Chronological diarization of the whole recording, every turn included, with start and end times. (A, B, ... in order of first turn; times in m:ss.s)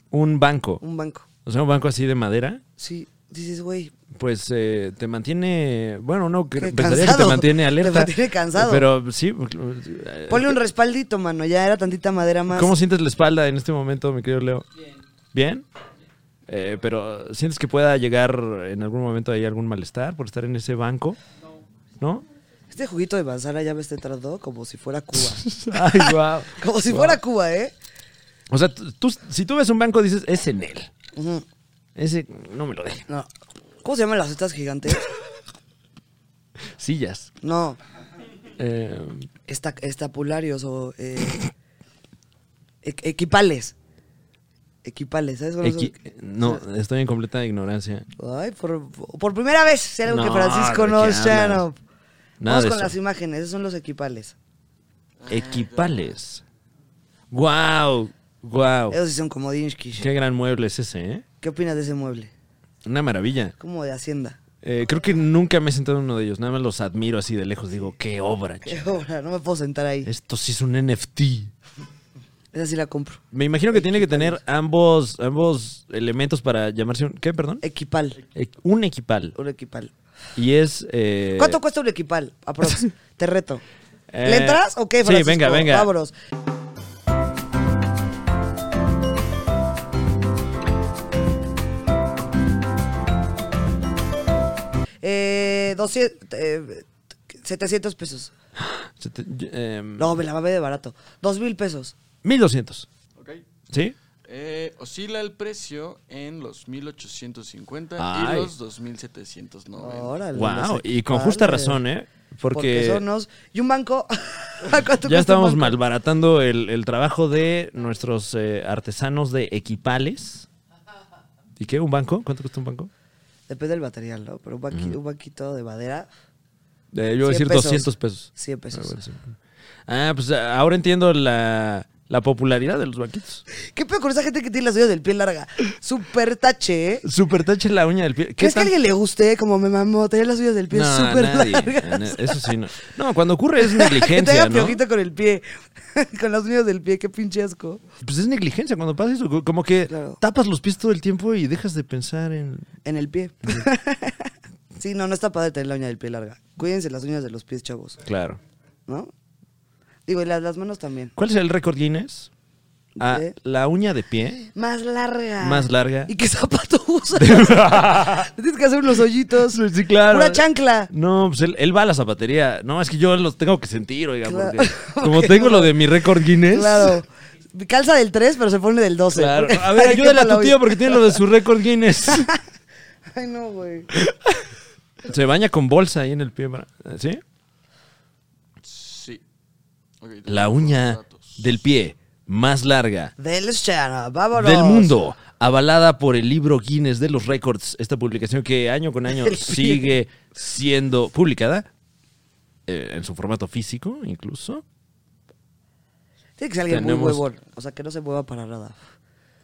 0:00.1-0:00.8 A
0:00.8-0:01.3 B
0:01.5-0:02.6 A
0:02.8-0:03.9 B
0:04.1-0:10.6 A
0:06.6-0:08.9 B
0:10.3-0:12.7 B
0:12.5-0:14.7 A
0:15.3-0:15.6 A
0:16.5-0:21.2 A
0:22.0-0:22.2 A
0:22.7-0:27.7 B
0:25.2-0:27.2 A
0:28.5-0:30.9 A
0:31.2-0:31.4 B
0:32.0-0:33.0 A
0:33.8-0:35.1 B
0:36.8-0:37.3 A
0:37.4-0:37.8 B
0:38.6-0:39.3 A
0:39.5-0:41.5 B
0:42.8-0:43.8 B
0:44.8-0:46.6 B
0:45.6-0:48.1 A
0:48.2-0:51.8 B
0:50.1-0:51.6 A
0:52.4-0:53.0 A
0:52.5-0:54.4 B
0:55.2-0:56.0 C
0:55.3-0:56.4 A
0:57.3-0:59.0 A
0:58.9-1:00.1 B
1:00.0-1:01.2 A
1:01.4-1:02.3 B
1:02.8-1:03.5 A
1:03.6-1:04.4 B
1:04.6-1:09.0 A
1:08.7-1:10.1 B
1:10.1-1:11.5 A
1:12.5-1:13.2 B
1:13.3-1:17.6 A
1:13.7-1:14.4 B
1:17.6-1:18.2 B
1:18.4-1:19.4 A
1:19.4-1:19.9 B
1:20.4-1:21.6 A
1:21.4-1:23.6 B
1:24.1-1:25.9 A
1:24.2-1:26.1 B
1:35.0-1:38.3 B
1:38.6-1:40.2 A
1:40.0-1:42.0 B
1:42.2-1:42.9 A
1:43.2-1:43.4 C
1:43.7-1:44.0 A
1:44.2-1:50.2 C
1:48.0-1:48.5 A
1:49.8-1:51.8 B
1:50.4-1:53.0 A
1:52.5-1:55.8 B
1:54.9-2:00.5 A
2:01.6-2:02.9 A
2:03.5-2:06.1 B
2:06.9-2:13.4 A
2:07.2-2:09.0 B
2:13.5-2:17.0 B
2:17.0-2:18.7 A
2:18.4-2:22.5 B
2:20.7-2:24.8 A
2:23.6-2:27.8 B
2:28.0-2:32.7 A
2:29.9-2:30.2 B
2:32.8-2:34.3 B
2:34.8-2:38.0 B
2:38.0-2:38.4 A
2:40.1-2:41.1 B
2:41.2-2:42.3 A
2:43.0-2:43.3 B
2:43.0-2:44.5 A
2:44.5-2:50.9 B
2:45.4-2:46.1 A
2:47.2-2:48.3 A
2:49.5-2:57.0 A
2:54.3-2:55.8 B
2:56.4-3:01.2 B
2:59.1-3:02.3 A
3:02.1-3:02.4 B
3:03.1-3:03.9 B
3:04.0-3:04.5 A
3:05.0-3:07.2 A
3:08.6-3:09.2 C
3:10.0-3:11.5 C
3:10.3-3:13.1 A
3:13.2-3:15.0 B
3:14.4-3:21.7 A
3:19.1-3:19.9 B
3:22.7-3:24.6 A
3:26.4-3:28.8 B
3:26.7-3:27.2 A